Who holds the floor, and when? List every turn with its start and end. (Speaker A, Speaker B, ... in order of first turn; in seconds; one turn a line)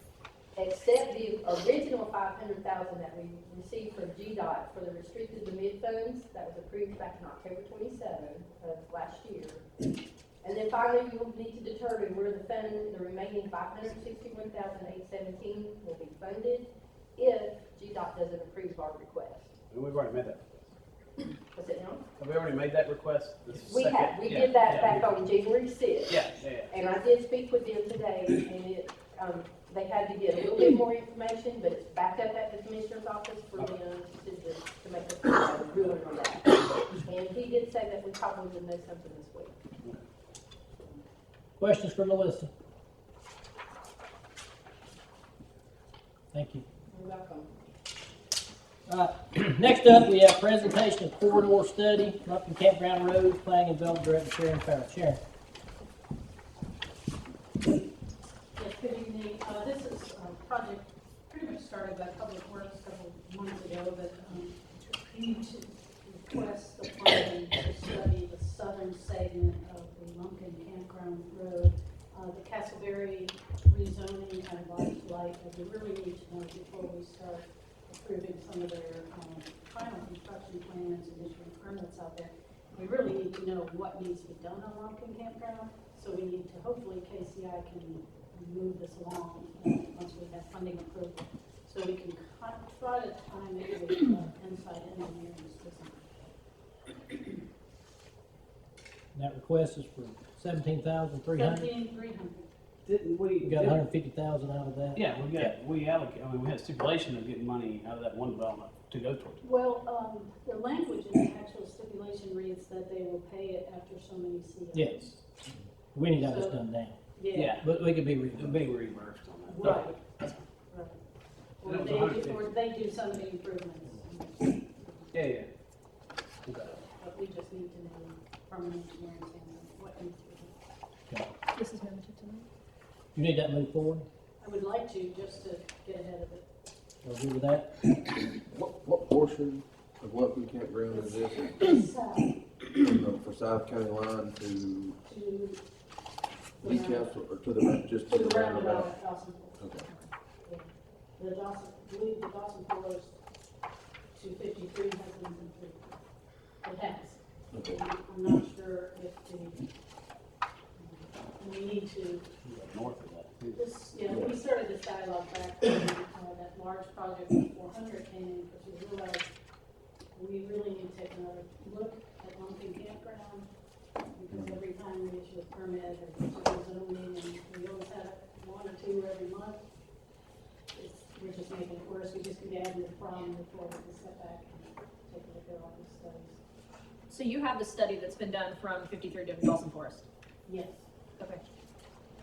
Speaker A: 0.6-9.7
Speaker A: 10.4-19.5
Speaker B: 19.7-20.7
Speaker A: 21.5-22.0
Speaker B: 22.2-25.1
Speaker A: 23.6-39.5
Speaker B: 26.1-26.7
Speaker C: 41.6-42.5
Speaker C: 46.3-46.6
Speaker A: 46.9-47.5
Speaker C: 48.9-55.2
Speaker D: 57.6-57.9
Speaker D: 58.5-96.3
Speaker C: 99.1-101.7
Speaker D: 101.3-102.5
Speaker B: 102.8-103.8
Speaker C: 103.4-105.5
Speaker B: 104.9-109.5
Speaker D: 109.4-115.0
Speaker C: 114.7-115.1
Speaker C: 115.9-118.6
Speaker D: 116.2-116.6
Speaker D: 117.1-117.6
Speaker B: 117.3-117.7
Speaker B: 118.3-119.9
Speaker D: 119.5-120.0
Speaker D: 120.6-121.0
Speaker D: 121.6-125.1
Speaker B: 121.6-122.5
Speaker B: 125.1-125.5
Speaker B: 126.5-126.8
Speaker D: 126.8-130.5
Speaker E: 131.5-132.5
Speaker C: 133.1-134.0
Speaker D: 134.4-136.4
Speaker C: 137.0-137.7
Speaker F: 138.3-141.7
Speaker D: 140.9-142.4
Speaker F: 142.7-145.0
Speaker D: 145.0-145.6
Speaker D: 146.6-147.2
Speaker F: 146.6-148.9
Speaker D: 148.0-149.6
Speaker F: 149.6-149.8
Speaker D: 150.4-153.1
Speaker D: 154.1-156.0
Speaker D: 156.6-157.2
Speaker F: 157.5-157.8
Speaker D: 157.7-159.7
Speaker D: 160.8-162.3
Speaker B: 162.4-163.6
Speaker D: 163.6-169.3
Speaker D: 170.1-173.5
Speaker D: 174.1-179.6
Speaker F: 174.3-174.6
Speaker D: 180.7-186.4
Speaker E: 187.1-190.0
Speaker D: 190.4-190.8